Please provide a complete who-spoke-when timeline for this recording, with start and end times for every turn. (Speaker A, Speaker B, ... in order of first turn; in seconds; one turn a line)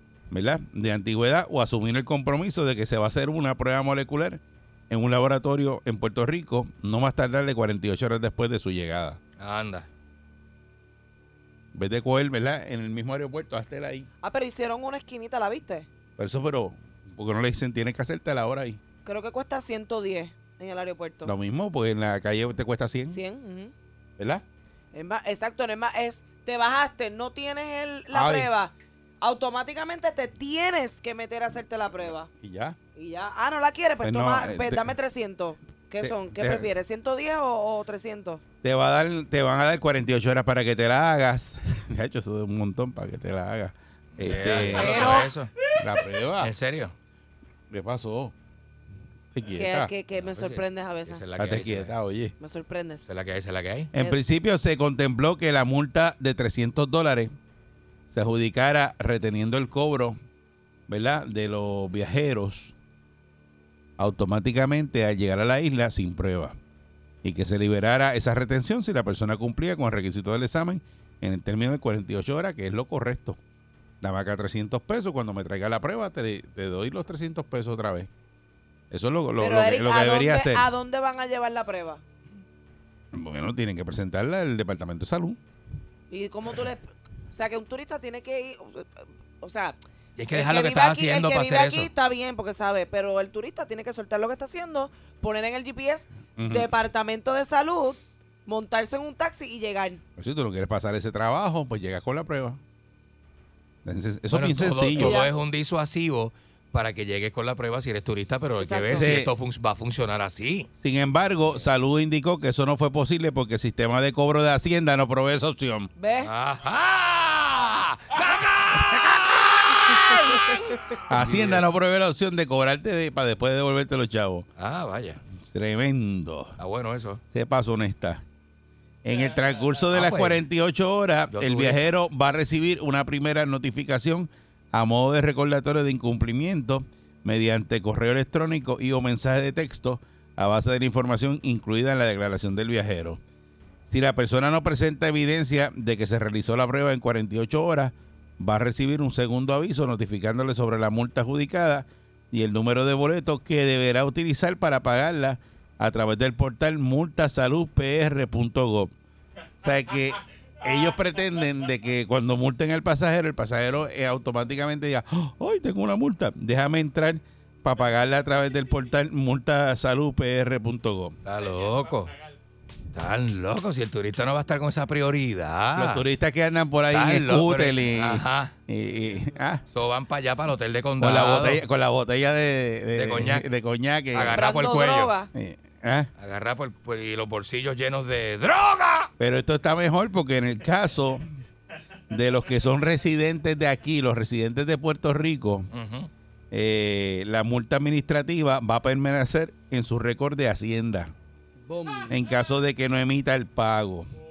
Speaker A: 0.3-9.2
Speaker B: 9.4-9.9
Speaker A: 11.7-14.1
Speaker C: 14.2-15.9
Speaker A: 16.2-18.8
Speaker C: 19.1-21.3
Speaker A: 21.2-23.2
Speaker C: 23.1-23.7
Speaker A: 24.2-24.4
Speaker C: 24.9-32.3
Speaker A: 28.1-28.5
Speaker A: 32.4-32.8
Speaker C: 33.0-38.4
Speaker A: 34.0-34.9
Speaker A: 36.0-36.7
Speaker A: 38.6-45.2
Speaker B: 44.2-45.5
Speaker C: 44.8-45.3
Speaker A: 45.8-46.5
Speaker B: 46.4-46.9
Speaker A: 47.7-48.3
Speaker A: 49.3-49.9
Speaker C: 49.5-51.2
Speaker B: 50.2-51.9
Speaker A: 51.4-52.4
Speaker C: 52.4-53.1
Speaker B: 53.1-53.9
Speaker A: 53.9-57.3
Speaker A: 58.1-60.2
Speaker A: 60.9-62.7
Speaker A: 64.0-66.6
Speaker A: 67.2-73.4
Speaker A: 74.0-78.1
Speaker A: 78.9-80.7
Speaker C: 79.4-82.0
Speaker A: 83.1-85.4
Speaker C: 86.1-89.8
Speaker B: 90.2-91.9
Speaker C: 90.3-100.0
Speaker A: 96.4-96.7
Speaker A: 100.2-102.6
Speaker A: 103.8-105.2
Speaker B: 104.3-110.7
Speaker C: 105.0-105.3
Speaker C: 108.6-109.2
Speaker A: 108.9-109.3
Speaker A: 110.8-115.9
Speaker C: 116.0-116.3
Speaker B: 116.2-121.7
Speaker C: 119.9-120.8
Speaker A: 121.1-124.5
Speaker B: 124.6-125.2
Speaker A: 125.4-126.6
Speaker B: 126.6-127.2
Speaker A: 127.3-128.2
Speaker A: 129.0-143.2
Speaker B: 129.9-130.4
Speaker B: 131.3-131.8
Speaker A: 143.9-158.9
Speaker A: 159.6-171.2
Speaker B: 171.2-172.1
Speaker B: 172.9-176.0
Speaker A: 175.8-179.6
Speaker B: 176.9-178.5
Speaker B: 179.7-181.6
Speaker A: 181.0-184.4
Speaker B: 182.9-183.5
Speaker B: 184.1-185.1
Speaker C: 184.3-185.3
Speaker A: 185.3-186.1
Speaker B: 186.2-189.1
Speaker A: 189.2-191.3
Speaker A: 192.1-195.7
Speaker B: 195.7-196.1
Speaker A: 196.5-201.1
Speaker C: 201.7-202.2
Speaker A: 202.1-204.1